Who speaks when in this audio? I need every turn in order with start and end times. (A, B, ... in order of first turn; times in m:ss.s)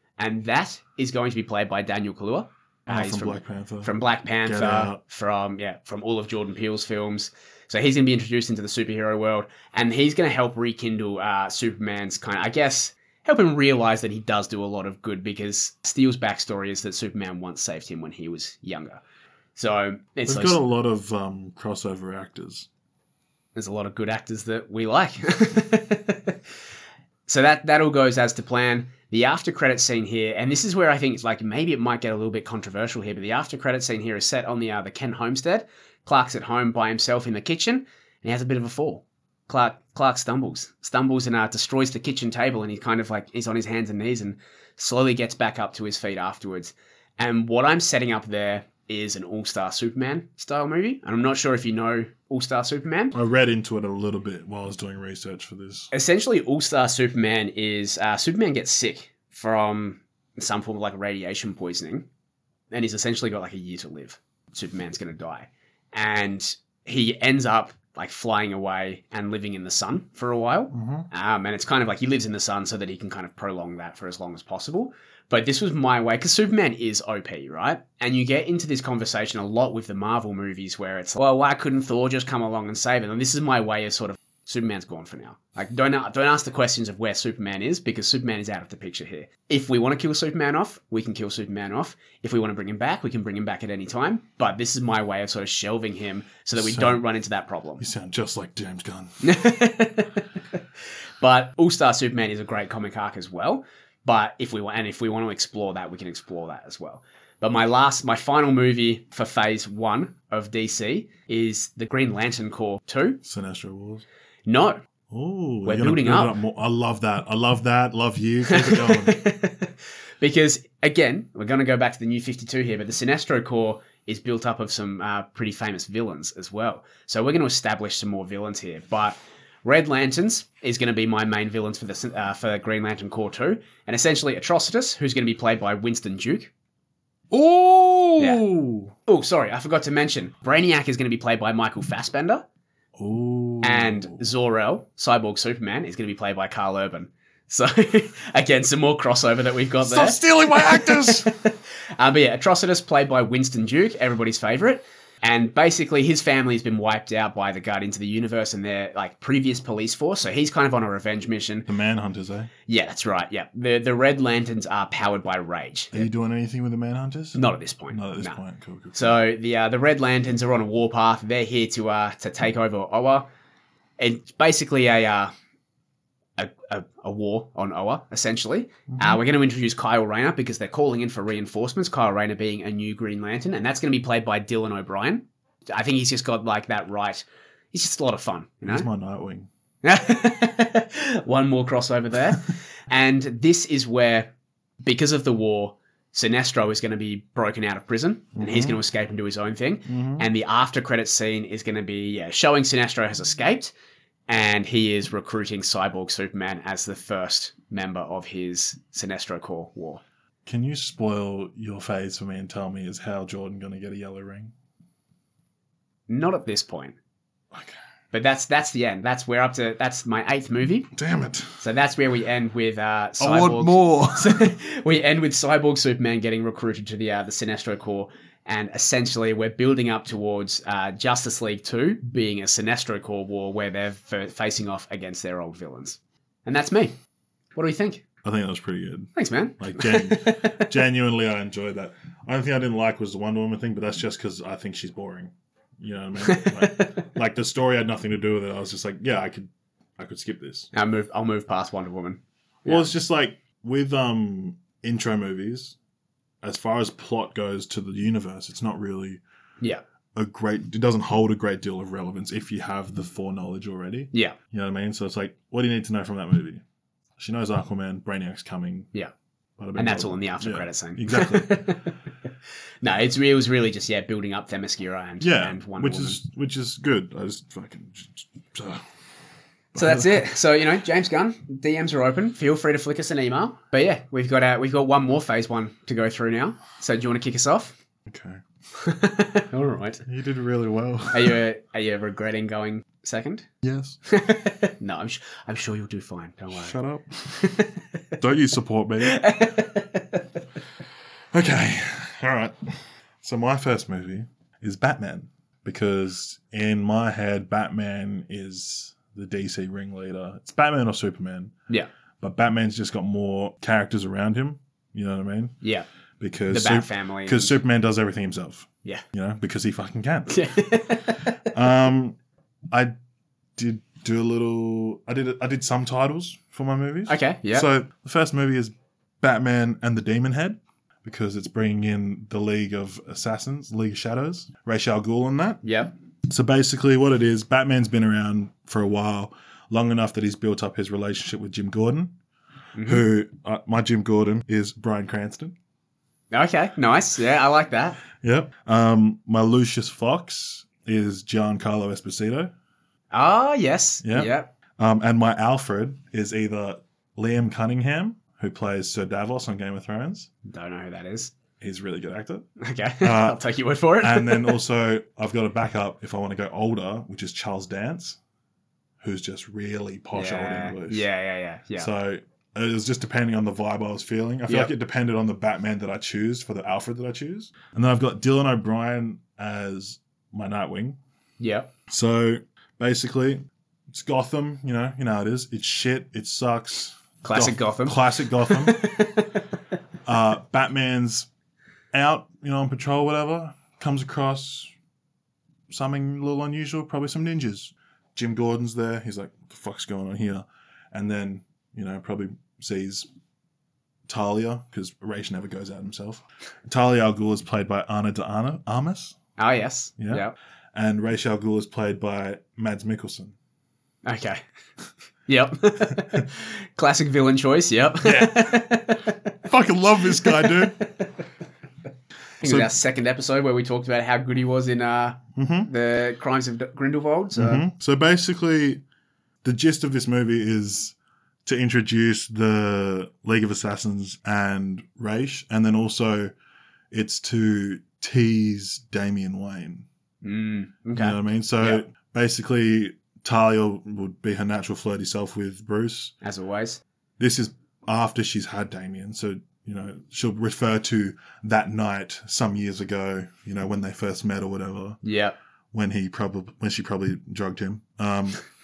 0:00.2-0:19.0 A
0:02.9-0:05.0 B
0:19.6-0:20.6 A
0:20.3-0:22.7 B
0:23.6-0:26.4 A
0:27.3-0:53.2 A
0:53.1-0:55.9 B
0:55.9-1:02.1 A
1:02.7-1:37.8 A
1:10.7-1:11.1 B
1:36.5-1:37.0 B
1:37.8-1:39.3 B
1:39.2-1:40.3 A
1:41.2-1:53.2 A
1:53.2-1:54.0 B
1:54.5-1:54.8 A
1:55.1-1:59.2 B
1:55.6-1:56.4 A
1:58.5-2:16.5 A
2:17.3-2:18.9 B
2:19.1-2:22.4 A
2:23.0-2:24.2 B
2:23.6-2:41.7 A
2:29.8-2:31.3 B
2:41.7-2:42.5 B
2:42.7-2:46.1 A
2:45.9-2:49.2 B
2:47.4-2:48.4 A
2:48.9-2:53.3 A
2:54.0-2:55.3 A
2:56.4-3:08.9 A
2:58.9-2:59.2 B
3:08.6-3:09.5 B
3:09.8-3:14.3 A
3:14.8-3:23.7 A
3:18.4-3:18.8 B
3:19.9-3:20.3 B
3:24.3-3:30.0 A
3:30.5-3:34.5 B
3:36.1-3:37.0 A
3:37.5-3:37.8 B
3:38.1-3:40.9 A
3:40.9-3:41.6 B
3:41.6-3:57.0 A
3:43.2-3:44.6 B
3:57.6-3:58.0 A
3:58.2-4:10.7 B
3:59.2-4:00.7 A
4:06.2-4:07.1 A
4:10.7-4:12.9 A
4:12.6-4:15.8 B
4:16.4-4:19.2 B
4:20.2-4:26.6 B
4:27.2-4:28.9 B
4:29.6-4:31.6 B
4:29.8-4:32.0 A
4:32.8-4:36.2 A
4:35.2-4:38.8 B
4:39.7-4:40.3 B
4:39.8-4:47.8 A
4:48.1-4:48.4 B
4:48.7-4:50.0 A
4:50.1-4:51.4 B
4:51.1-4:53.5 A
4:53.6-4:54.0 B
4:54.1-4:56.8 A
4:56.5-4:57.5 B
4:57.3-4:58.1 A
4:58.2-4:59.3 B
4:59.0-5:00.3 A
5:01.3-5:11.5 B
5:12.2-5:15.6 B
5:15.6-5:15.9 A
5:16.2-5:20.4 B
5:16.5-5:17.6 A
5:20.3-5:21.5 A
5:21.4-5:22.2 B
5:23.6-5:35.6 B
5:27.1-5:27.7 A
5:35.6-5:35.9 A
5:36.3-5:42.1 B
5:42.8-5:43.0 A
5:42.8-5:45.6 B
5:46.3-5:48.0 A
5:48.2-5:52.5 B
5:53.1-5:54.5 A
5:54.0-6:00.3 B
6:00.4-6:01.3 A
6:01.6-6:02.5 B
6:02.6-6:04.6 A
6:03.0-6:03.4 B
6:04.0-6:08.2 B
6:09.0-6:11.1 B
6:10.1-6:11.9 A
6:11.8-6:21.0 B
6:21.4-6:21.7 A
6:21.9-6:28.9 B
6:27.2-6:29.5 A
6:30.1-6:31.3 B
6:31.9-6:34.7 B
6:35.7-6:43.1 B
6:44.1-6:49.2 B
6:49.4-6:50.4 A
6:50.0-6:53.4 B
6:54.0-6:54.4 A
6:55.3-6:59.4 A
6:58.0-6:58.7 B
6:59.4-7:00.8 B
7:00.1-7:01.2 A
7:02.4-7:02.7 B
7:02.4-7:07.6 A
7:05.4-7:05.7 B
7:07.4-7:08.8 B
7:09.4-7:16.3 B
7:16.9-7:19.9 B
7:20.2-7:21.8 A
7:21.0-7:26.1 B
7:26.2-7:26.8 A
7:27.2-7:35.0 B
7:35.0-7:35.4 A
7:35.7-7:38.4 B